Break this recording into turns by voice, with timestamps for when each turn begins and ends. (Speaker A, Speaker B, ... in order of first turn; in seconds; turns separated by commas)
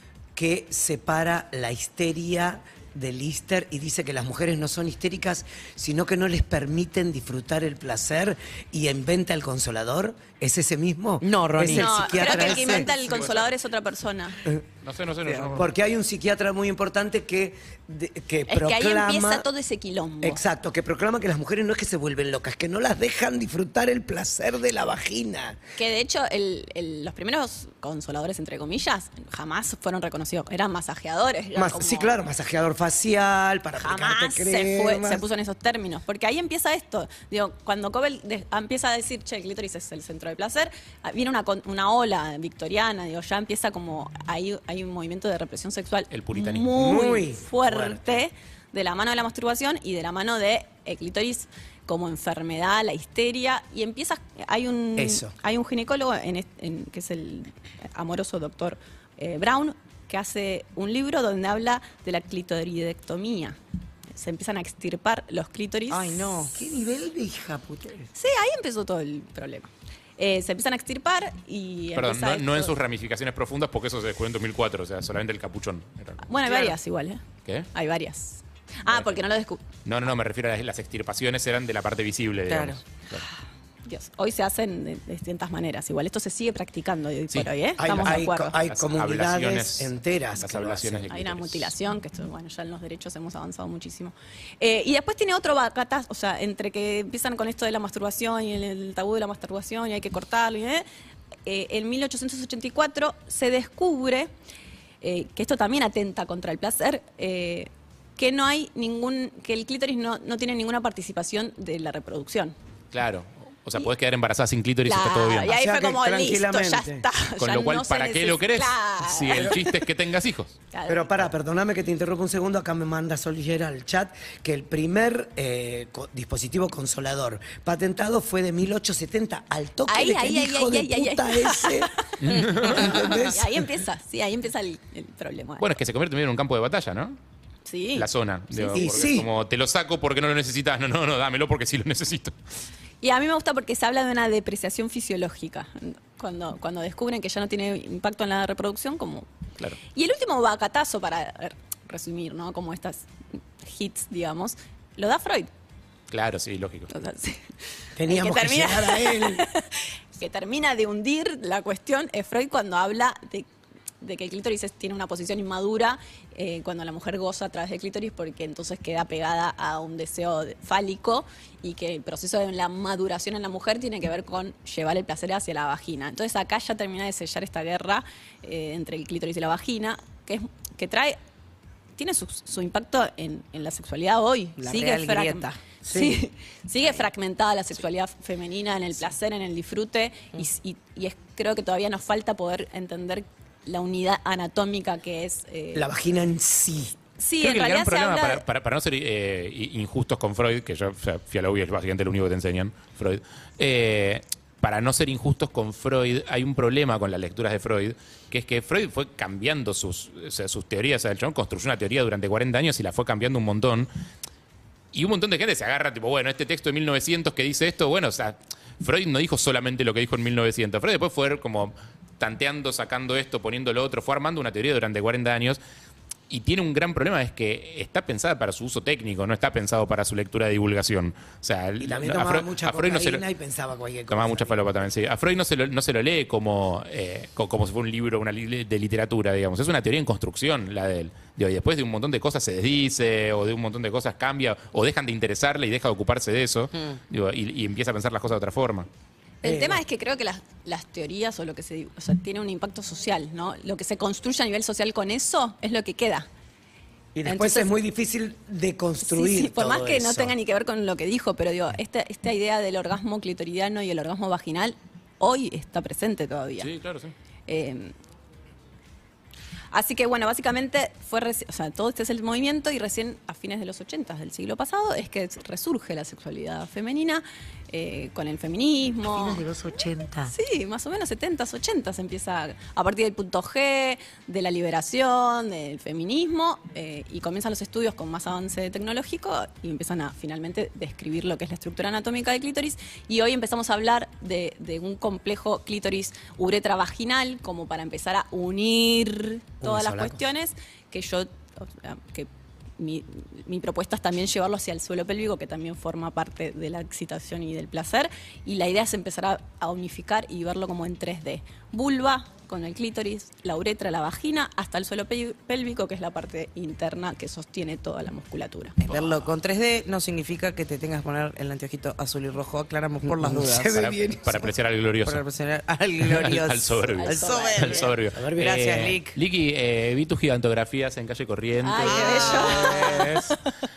Speaker A: 0.4-13.3, Speaker B: 11.2-12.9, Speaker C: 11.6-14.4, Speaker D: 14.8-15.7, Speaker B: 15.2-15.7, Speaker A: 15.6-19.5, Speaker C: 18.5-20.4, Speaker A: 20.2-25.6, Speaker C: 25.8-32.1, Speaker A: 31.5-35.2, Speaker C: 33.8-63.6, Speaker D: 46.1-46.7, Speaker A: 46.8-48.2, Speaker A: 55.0-55.3, Speaker C: 64.1-66.4, Speaker B: 65.9-66.7, Speaker A: 66.5-68.1, Speaker C: 68.2-72.8, Speaker D: 72.0-76.3, Speaker C: 76.2-79.6, Speaker D: 78.9-79.2, Speaker D: 79.8-83.2, Speaker B: 82.5-82.8, Speaker C: 83.9-88.6, Speaker D: 87.3-88.0, Speaker A: 87.8-91.0, Speaker D: 88.5-91.7, Speaker C: 91.1-100.8, Speaker C: 101.5-104.3, Speaker C: 105.0-112.5, Speaker D: 112.9-115.5, Speaker C: 114.8-119.7, Speaker A: 115.5-117.0, Speaker D: 117.4-120.6, Speaker C: 120.7-121.3, Speaker A: 120.9-133.7, Speaker C: 129.9-135.7, Speaker D: 132.2-133.0, Speaker B: 132.6-133.1, Speaker D: 135.6-137.2, Speaker C: 137.7-138.9, Speaker D: 137.9-142.3, Speaker A: 138.8-139.3, Speaker C: 143.0-149.3, Speaker C: 149.9-153.1, Speaker C: 153.6-155.5, Speaker D: 156.1-156.9, Speaker C: 156.9-157.5, Speaker A: 158.0-159.5, Speaker C: 158.0-163.5, Speaker C: 164.0-181.2, Speaker C: 182.0-195.9, Speaker B: 184.6-185.6, Speaker A: 185.8-186.2, Speaker A: 195.7-196.9, Speaker C: 197.2-198.4, Speaker D: 197.4-213.9, Speaker D: 214.9-225.6, Speaker D: 226.3-233.2, Speaker A: 231.8-234.6, Speaker D: 234.1-248.9, Speaker C: 249.4-256.3, Speaker A: 249.4-249.8, Speaker A: 257.1-260.4, Speaker C: 257.2-257.7, Speaker C: 259.0-266.7, Speaker D: 266.6-267.1, Speaker C: 267.5-267.9, Speaker C: 269.7-279.5, Speaker A: 279.1-280.3, Speaker C: 280.3-318.8, Speaker A: 299.6-300.2, Speaker D: 318.9-319.3, Speaker B: 318.9-323.7, Speaker A: 323.0-324.5, Speaker D: 323.7-325.2, Speaker B: 325.1-329.2, Speaker D: 326.0-333.4, Speaker C: 327.0-327.9, Speaker A: 328.1-328.6, Speaker C: 331.6-333.5, Speaker B: 331.8-333.1